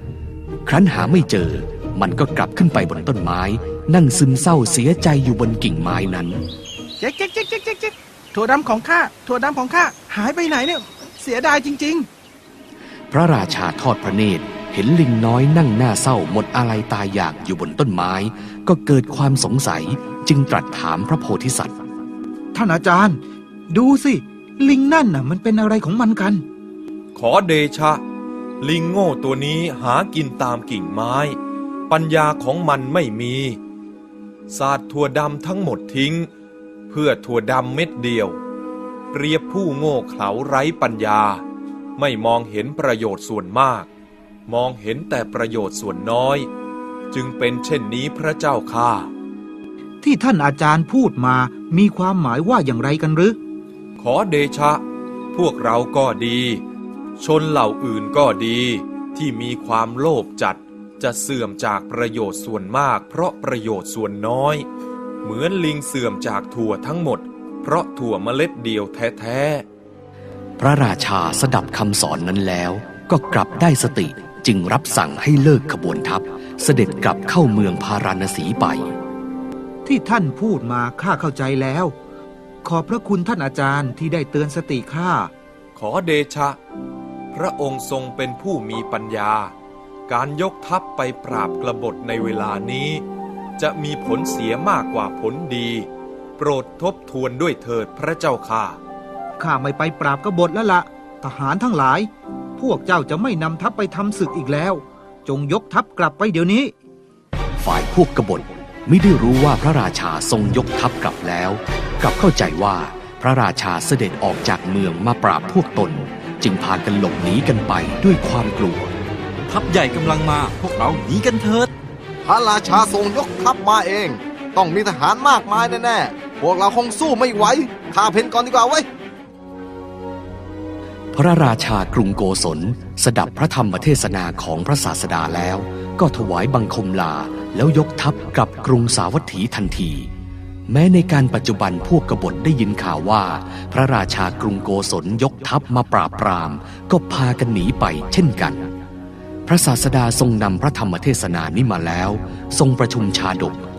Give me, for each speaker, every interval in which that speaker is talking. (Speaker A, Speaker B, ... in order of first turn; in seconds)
Speaker A: 0.7-6.4, 13.1-21.7, 70.6-78.9, 107.6-118.9, 131.1-140.1, 140.7-148.6, 149.5-153.6
Speaker B: 7.0-12.1
Speaker C: 22.5-26.4, 50.0-53.4, 79.8-81.9, 82.6-85.3, 99.4-106.7
Speaker D: 27.1-28.0, 28.6-31.4, 31.9-33.6, 34.5-36.3, 36.9-38.4, 39.1-41.4, 42.0-43.9, 44.5-46.5, 47.1-49.1, 54.0-56.6, 57.2-64.7, 65.2-69.6, 85.8-86.6, 87.3-89.5, 90.1-93.0, 93.6-95.9, 96.4-98.8
Speaker E: 119.5-121.7
Speaker F: 122.2-128.9